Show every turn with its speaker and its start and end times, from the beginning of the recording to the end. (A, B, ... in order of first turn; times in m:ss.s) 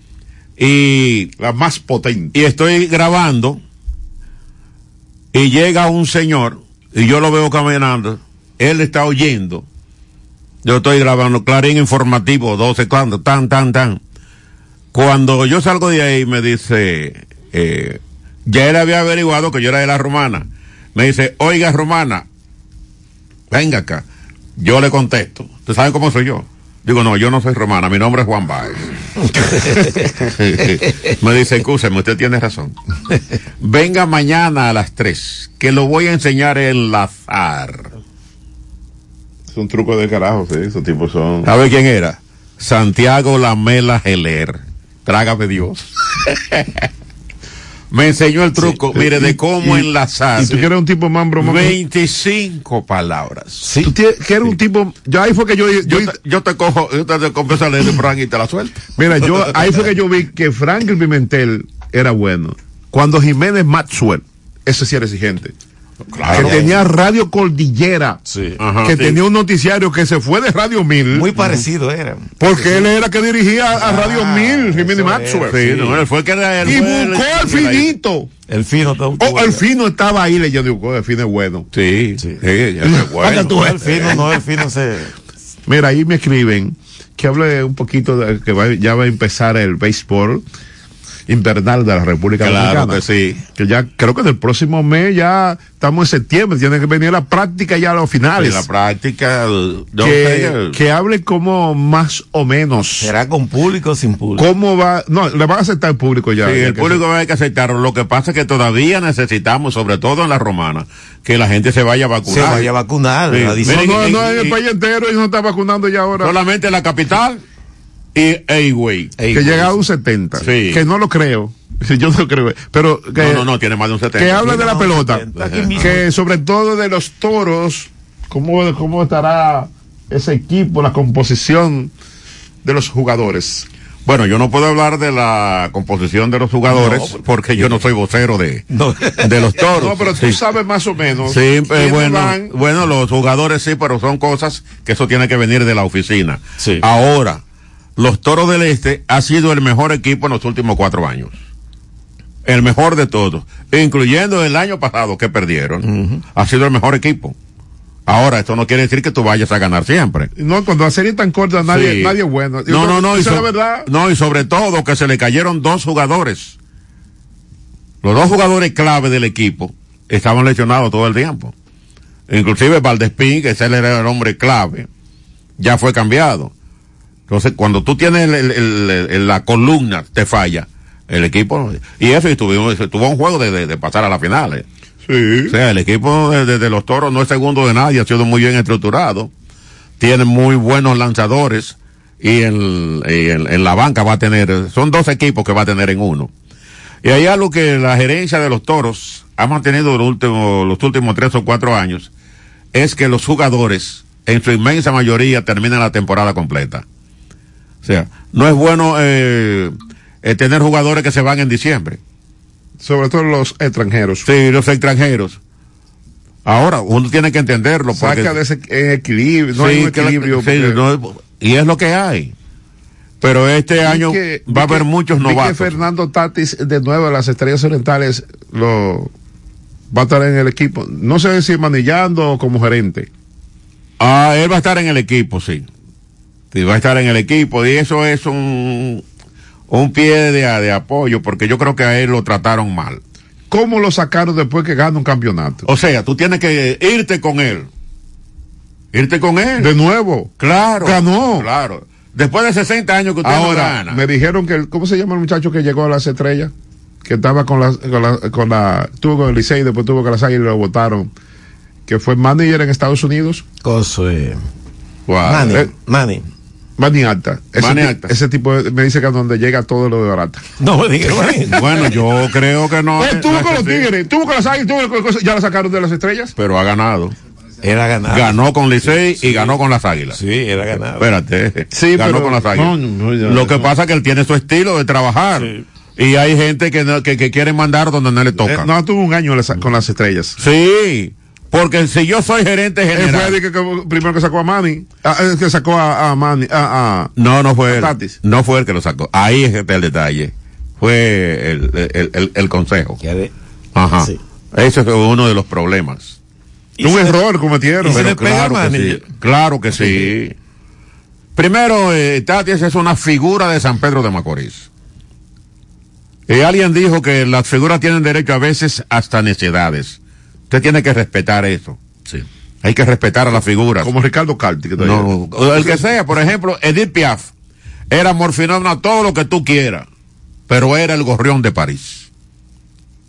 0:00.6-0:01.3 A
0:01.4-0:02.3 B
0:02.3-0:03.6 A
0:05.3-0:09.7 A
0:10.6-0:14.0 A
0:14.9-0:22.2 A
0:23.5-0:24.0 A
0:24.6-0:28.9 A
0:29.5-0:29.9 C
0:29.5-0:32.8 A
0:33.6-0:37.9 A
0:39.5-0:41.5 B
0:41.4-0:46.9 A
0:47.9-0:50.6 A
0:48.9-0:51.8 B
0:51.4-0:53.6 A
0:53.6-0:53.9 C
0:53.8-0:56.2 B
0:55.8-0:58.8 A
0:59.0-1:05.5 B
1:06.1-1:06.7 A
1:06.3-1:08.2 B
1:06.3-1:06.8 C
1:08.3-1:08.6 C
1:08.6-1:09.2 A
1:08.8-1:11.3 B
1:11.1-1:12.3 C
1:12.4-1:15.9 B
1:13.8-1:16.0 C
1:15.5-1:17.9 A
1:16.6-1:18.3 B
1:18.5-1:19.6 C
1:19.2-1:21.7 B
1:21.7-1:24.2 A
1:23.0-1:24.1 B
1:23.2-1:25.1 C
1:25.7-1:30.4 B
1:31.3-1:38.7 B
1:32.4-1:33.4 A
1:38.4-1:40.8 A
1:40.0-1:43.1 B
1:43.0-1:44.5 C
1:44.4-1:47.0 B
1:46.4-1:52.7 A
1:52.3-1:54.1 C
1:53.3-1:54.6 A
1:53.6-1:56.4 B
1:56.2-1:57.4 A
1:58.2-1:59.2 A
1:59.2-1:59.7 C
1:59.3-2:03.5 B
2:00.4-2:00.8 A
2:03.2-2:04.6 A
2:04.2-2:11.9 B
2:04.4-2:06.0 C
2:05.4-2:05.7 A
2:12.6-2:13.7 B
2:14.0-2:18.7 A
2:16.7-2:17.2 C
2:18.7-2:19.6 C
2:19.2-2:20.4 A
2:19.7-2:22.6 B
2:21.3-2:27.4 A
2:26.6-2:26.8 C
2:28.0-2:31.4 A
2:32.4-2:37.4 A
2:35.9-2:36.2 C
2:38.1-2:40.3 A
2:40.4-2:43.9 B
2:41.7-2:46.6 A
2:48.0-2:51.5 A
2:52.3-2:54.9 A
2:55.6-2:56.5 A
2:57.3-3:04.7 A
3:05.0-3:05.6 B
3:05.5-3:09.3 A
3:10.0-3:16.3 A
3:17.0-3:22.1 A
3:22.7-3:26.8 A
3:27.8-3:32.0 A
3:32.8-3:34.3 B
3:34.2-3:35.4 A
3:36.4-3:38.4 A
3:37.9-3:40.8 B
3:39.6-3:42.3 A
3:43.2-3:45.8 A
3:43.8-3:49.1 B
3:49.9-3:53.1 B
3:54.0-3:55.7 A
3:56.5-3:59.0 A
3:59.7-4:03.0 A
4:03.5-4:05.7 B
4:05.6-4:07.7 A
4:08.9-4:09.7 A
4:09.6-4:11.5 B
4:10.4-4:14.0 A
4:13.2-4:16.5 B
4:17.0-4:21.1 B
4:21.9-4:23.4 B
4:23.6-4:24.4 C
4:25.1-4:25.7 A
4:25.2-4:26.2 C
4:26.8-4:30.4 B
4:27.6-4:28.1 A
4:30.6-4:31.9 C
4:31.5-4:33.9 A
4:33.0-4:36.4 B
4:36.4-4:37.2 A
4:37.6-4:39.5 C
4:38.1-4:40.2 A
4:40.1-4:41.1 C
4:41.0-4:48.7 A
4:41.7-4:43.7 B
4:45.4-4:45.6 C
4:48.4-4:50.4 B
4:50.4-4:53.4 A
4:52.9-4:57.1 B
4:57.2-5:03.0 A
4:57.7-4:58.2 B
5:03.0-5:03.3 C
5:03.8-5:06.2 A
5:06.8-5:07.2 C
5:06.8-5:08.1 B
5:07.8-5:09.0 C
5:07.9-5:10.4 A
5:09.8-5:10.1 C
5:11.4-5:14.7 A
5:16.3-5:20.0 A
5:20.5-5:23.9 A
5:23.8-5:25.8 B
5:24.8-5:27.3 A
5:27.9-5:29.9 A
5:30.5-5:32.1 A